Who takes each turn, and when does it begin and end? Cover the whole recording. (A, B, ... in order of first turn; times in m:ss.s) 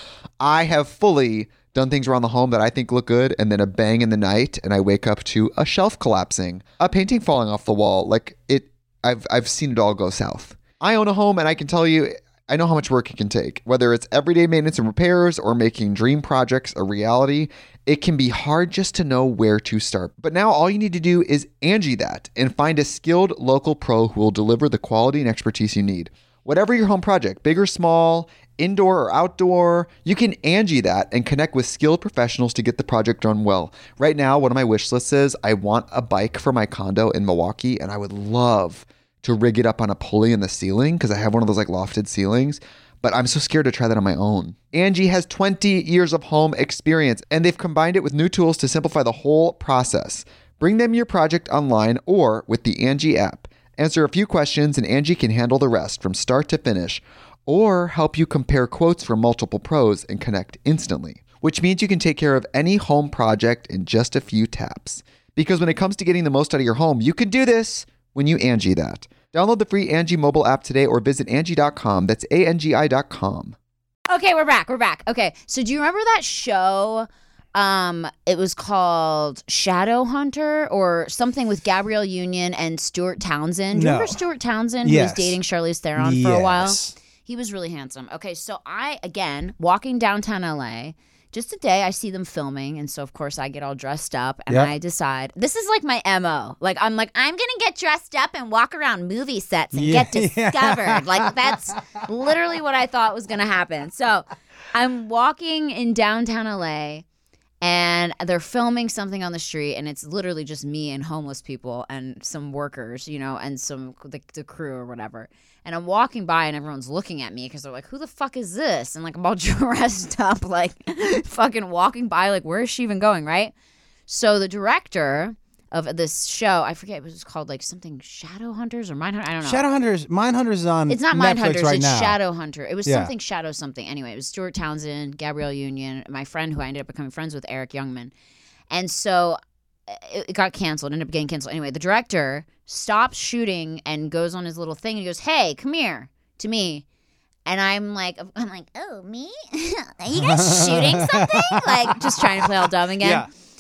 0:00.4-1:13.6 A
1:14.1-1:47.0 B
1:23.7-1:24.2 C
1:24.8-1:25.4 C
1:26.0-1:27.0 C
1:39.7-1:41.5 C
1:47.6-2:03.5 B
2:04.1-2:09.6 B
2:09.4-2:12.2 C
2:10.9-2:18.1 B
2:12.8-2:13.1 C
2:18.7-2:26.8 B
2:27.5-2:33.3 B
2:30.2-2:33.3 C